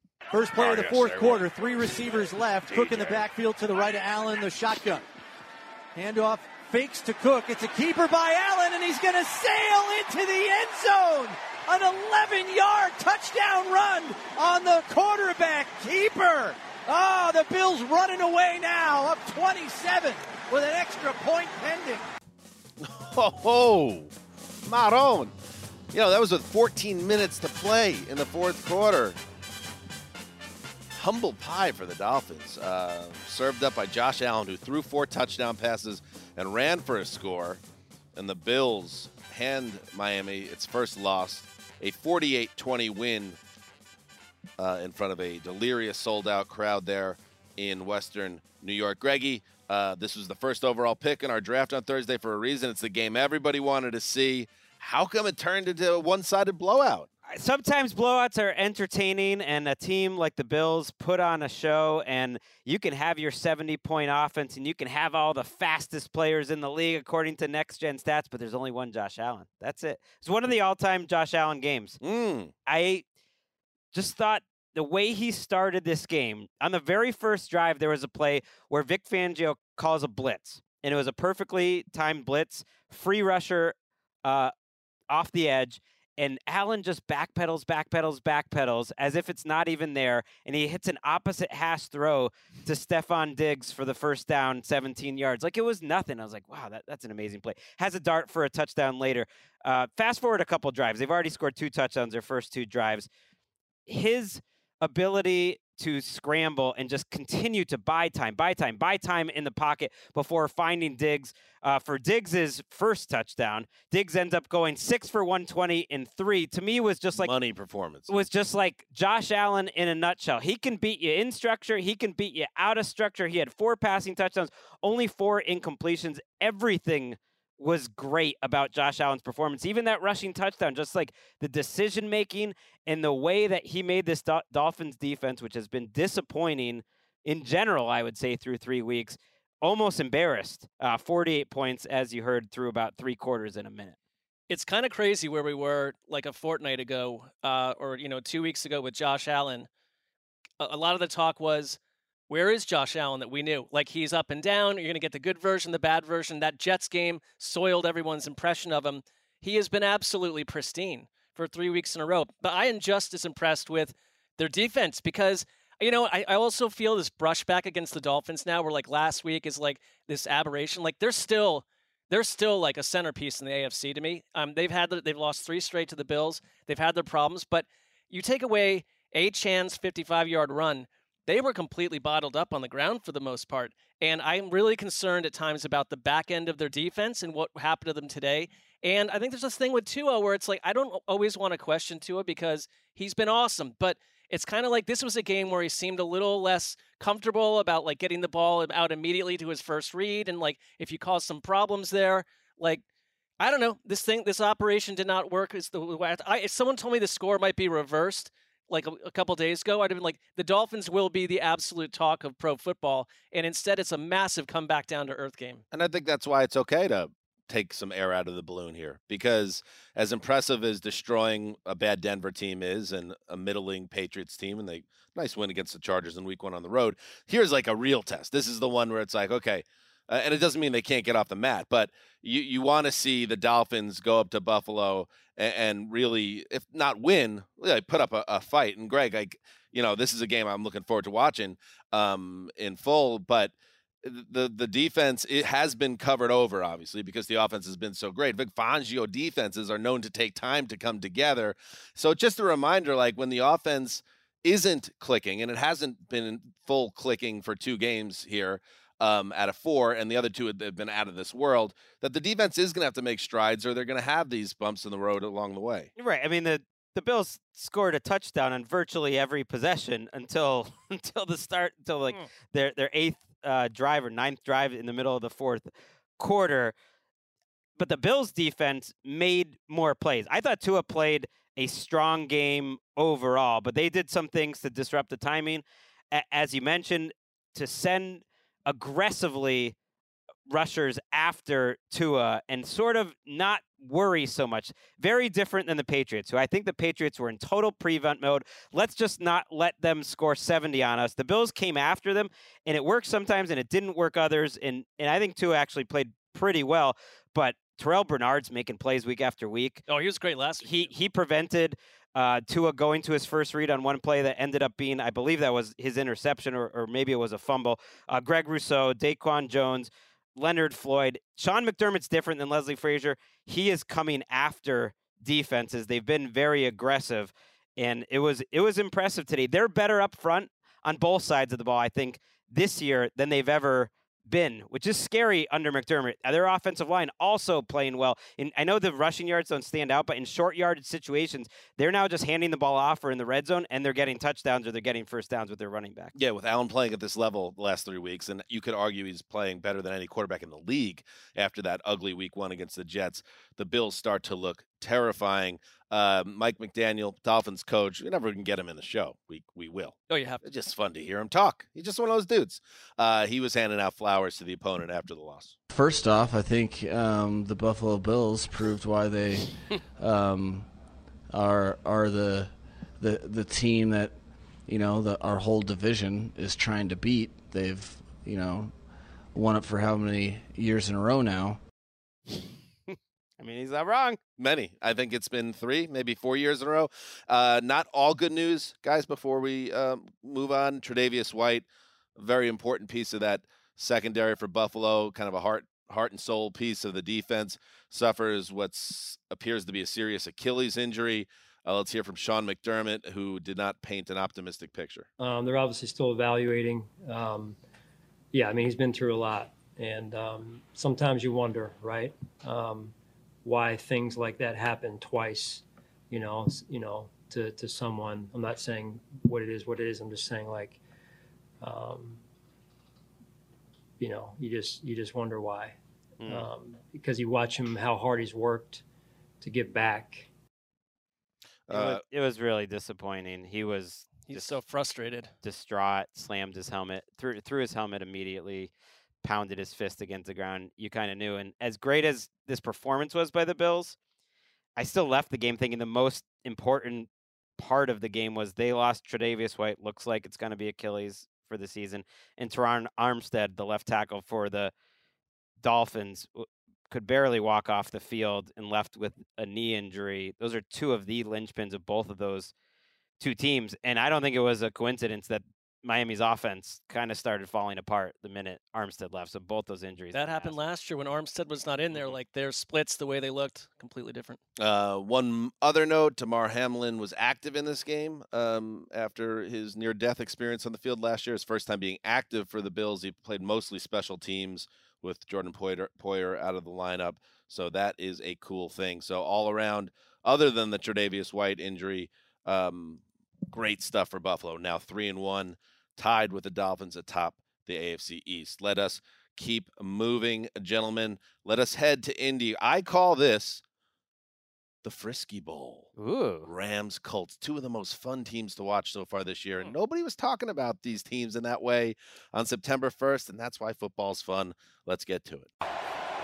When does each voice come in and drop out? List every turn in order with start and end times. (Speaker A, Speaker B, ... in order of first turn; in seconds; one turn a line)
Speaker A: 0.3-5.0
Speaker B: 0.6-3.2
Speaker A: 6.0-22.0
Speaker B: 22.8-24.1
Speaker B: 24.6-25.3
Speaker B: 25.9-29.2
Speaker B: 30.9-37.6
Speaker B: 38.1-43.4
Speaker B: 44.6-57.1
Speaker C: 57.2-72.0
Speaker B: 72.0-72.5
Speaker C: 72.7-73.0
Speaker C: 73.9-84.5
Speaker C: 85.1-103.1
Speaker C: 103.9-117.3
Speaker B: 117.2-118.1
Speaker C: 118.1-143.9
Speaker D: 144.5-149.7
Speaker D: 150.6-202.8
Speaker D: 203.4-215.6
Speaker B: 215.7-265.9
Speaker C: 265.9-276.7
Speaker C: 277.8-289.8
Speaker C: 290.5-309.8
Speaker D: 309.9-310.9
Speaker C: 310.6-346.1
Speaker B: 346.1-365.5
Speaker D: 360.1-360.4
Speaker E: 365.7-370.7
Speaker E: 371.3-378.7
Speaker E: 379.3-381.6
Speaker C: 382.9-384.2
Speaker B: 384.4-391.6
Speaker B: 392.2-405.1
Speaker F: 405.2-407.6
Speaker F: 408.3-420.8
Speaker F: 421.6-422.2
Speaker F: 424.0-428.8
Speaker C: 426.2-426.5
Speaker F: 429.4-430.3
Speaker B: 431.7-432.0
Speaker C: 431.7-434.6
Speaker D: 434.3-435.3
Speaker C: 435.4-438.7
Speaker C: 439.2-444.0
Speaker C: 444.8-454.7
Speaker C: 455.6-462.5
Speaker C: 463.2-470.5
Speaker D: 470.1-474.4
Speaker B: 474.6-503.6
Speaker B: 504.8-505.9
Speaker C: 505.9-506.5
Speaker B: 506.4-515.5